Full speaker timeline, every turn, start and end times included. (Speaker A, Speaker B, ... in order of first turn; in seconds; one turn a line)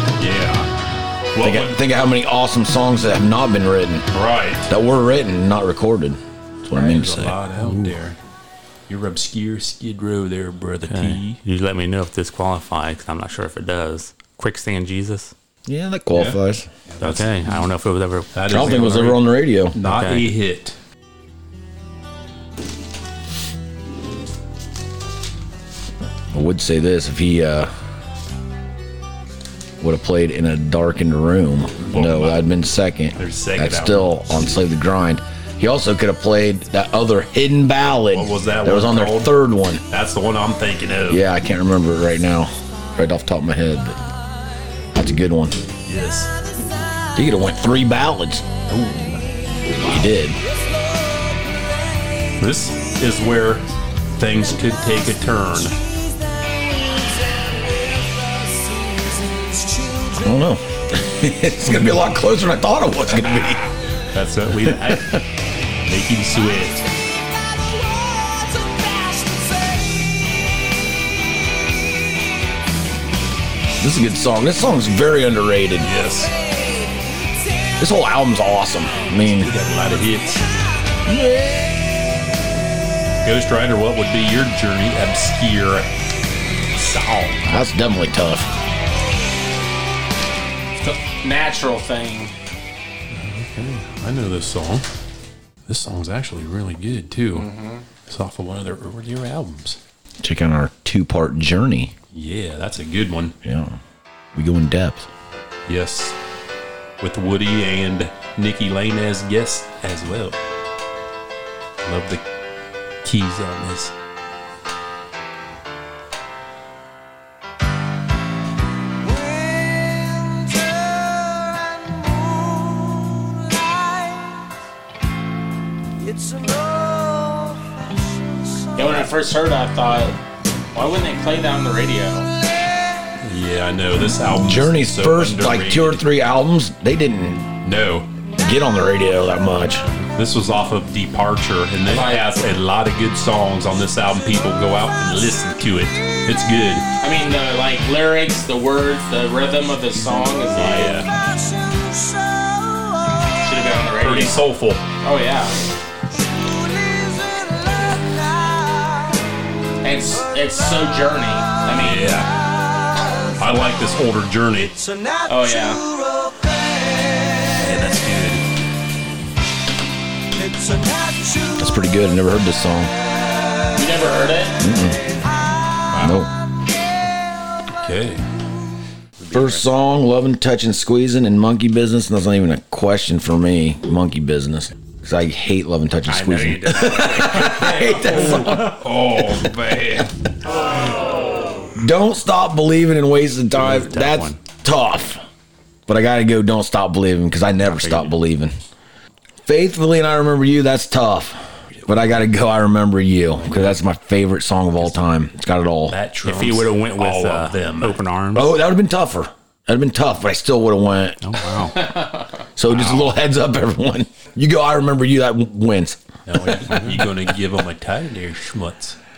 Speaker A: 0.2-0.7
Speaker A: 1.3-1.8
Speaker B: 1.4-4.1
Speaker A: 4.1-4.7
Speaker B: 4.7-7.4
Speaker A: 6.7-8.2
Speaker A: 8.9-11.4
Speaker C: 10.9-15.3
Speaker B: 15.7-16.7
Speaker A: 16.9-17.6
Speaker C: 17.0-18.8
Speaker A: 18.3-20.8
Speaker B: 18.5-19.8
Speaker C: 19.8-20.3
Speaker B: 26.3-27.7
Speaker B: 29.8-39.8
Speaker A: 31.8-32.5
Speaker A: 33.2-34.2
Speaker A: 38.1-39.3
Speaker A: 39.9-41.2
Speaker B: 41.1-44.0
Speaker B: 44.9-45.6
Speaker A: 45.9-46.3
Speaker B: 47.1-48.5
Speaker A: 48.7-49.2
Speaker B: 49.7-50.4
Speaker D: 50.5-52.3
Speaker A: 52.4-53.6
Speaker A: 54.1-55.8
Speaker D: 55.8-60.3
Speaker B: 60.2-63.7
Speaker A: 64.1-65.1
Speaker B: 64.6-65.2
Speaker A: 65.8-66.8
Speaker D: 67.0-70.4
Speaker D: 71.7-72.2
Speaker B: 73.8-75.9
Speaker A: 75.8-76.3
Speaker D: 76.2-77.7
Speaker B: 77.8-79.5
Speaker A: 79.3-80.4
Speaker B: 81.0-81.8
Speaker A: 83.2-85.9
Speaker A: 86.7-87.4
Speaker B: 87.4-88.5
Speaker E: 90.8-92.3
Speaker A: 93.1-94.8
Speaker A: 95.7-99.8
Speaker E: 97.3-97.8
Speaker B: 100.2-101.9
Speaker A: 102.1-103.3
Speaker B: 103.4-103.8
Speaker B: 104.3-105.1
Speaker A: 105.7-106.2
Speaker A: 107.0-110.4
Speaker A: 111.8-112.2
Speaker A: 113.0-113.9
Speaker D: 119.0-124.2
Speaker D: 126.0-129.1
Speaker E: 128.8-130.2
Speaker E: 130.7-132.3
Speaker A: 133.2-136.0
Speaker B: 134.3-137.5
Speaker A: 137.6-138.1
Speaker B: 138.4-139.8
Speaker A: 140.1-146.8
Speaker E: 141.8-142.2
Speaker E: 147.0-151.0
Speaker A: 150.5-151.1
Speaker D: 151.2-152.8
Speaker E: 153.4-154.4
Speaker A: 154.0-154.8
Speaker E: 155.0-155.6
Speaker D: 156.2-158.9
Speaker E: 159.8-162.2
Speaker A: 161.8-162.3
Speaker A: 163.4-164.7
Speaker D: 164.7-167.6
Speaker E: 165.3-165.8
Speaker A: 167.6-168.5
Speaker D: 170.3-171.8
Speaker B: 171.6-172.9
Speaker E: 173.8-174.6
Speaker B: 174.6-175.0
Speaker A: 175.9-176.2
Speaker B: 176.0-176.3
Speaker A: 177.8-178.2
Speaker B: 179.3-188.9
Speaker C: 186.1-188.7
Speaker A: 187.4-190.1
Speaker B: 191.8-195.2
Speaker C: 193.6-194.4
Speaker B: 195.9-198.5
Speaker C: 197.7-198.1
Speaker B: 199.4-205.9
Speaker A: 205.9-208.0
Speaker C: 206.2-208.5
Speaker B: 208.3-211.2
Speaker C: 211.2-211.9
Speaker E: 211.8-212.1
Speaker B: 212.6-216.0
Speaker A: 216.2-219.0
Speaker C: 216.7-217.0